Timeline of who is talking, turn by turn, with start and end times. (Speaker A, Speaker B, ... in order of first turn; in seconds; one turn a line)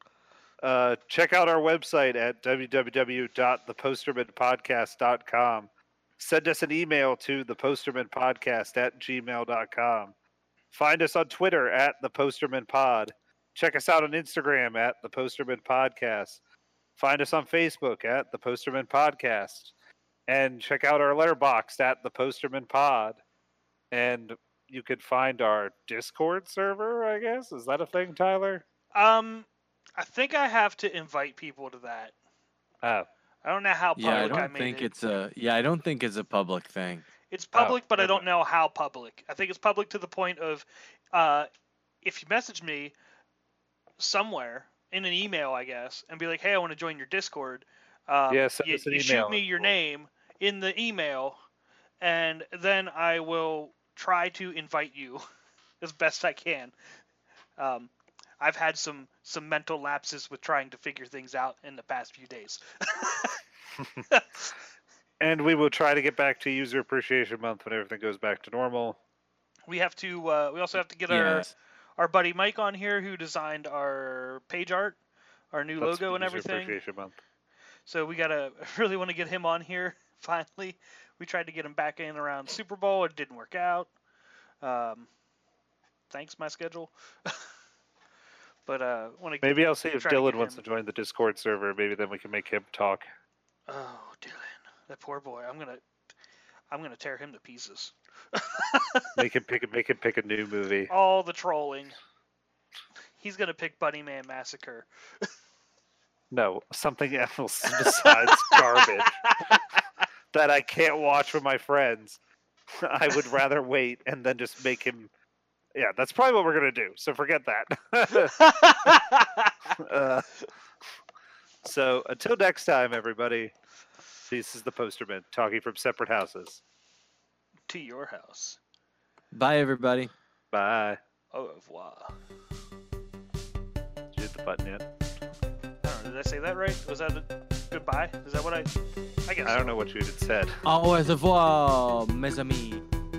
Speaker A: 0.6-10.1
Speaker A: 10.7-16.4
Speaker A: 17.0-19.7
Speaker A: 20.3-23.2
Speaker A: 23.9-28.6
Speaker B: 28.9-32.1
Speaker A: 32.8-33.1
Speaker B: 33.4-34.9
Speaker C: 34.0-37.0
Speaker A: 34.1-34.5
Speaker B: 37.3-41.5
Speaker A: 37.5-38.3
Speaker B: 42.0-42.9
Speaker B: 44.0-51.4
Speaker A: 48.3-49.7
Speaker B: 52.0-55.2
Speaker B: 55.8-56.7
Speaker B: 57.6-63.4
Speaker B: 64.1-64.5
Speaker A: 65.2-69.0
Speaker B: 69.7-75.0
Speaker C: 71.1-71.5
Speaker B: 75.5-76.8
Speaker A: 75.8-77.1
Speaker B: 77.8-83.9
Speaker B: 84.6-85.1
Speaker B: 86.1-87.4
Speaker B: 88.7-90.6
Speaker A: 89.4-93.1
Speaker B: 93.7-95.8
Speaker B: 96.7-99.1
Speaker A: 99.2-100.9
Speaker B: 100.9-102.0
Speaker B: 103.2-105.3
Speaker A: 106.3-109.3
Speaker B: 107.7-109.8
Speaker A: 110.3-112.2
Speaker A: 112.8-115.1
Speaker A: 115.7-118.9
Speaker B: 118.2-119.7
Speaker A: 119.7-120.3
Speaker A: 121.6-123.5
Speaker A: 124.3-126.6
Speaker B: 127.7-128.6
Speaker C: 129.3-130.1
Speaker A: 130.5-131.0
Speaker B: 131.3-132.1
Speaker A: 134.1-134.8
Speaker B: 135.8-138.7
Speaker B: 139.2-139.8
Speaker A: 139.4-140.6
Speaker C: 140.6-142.8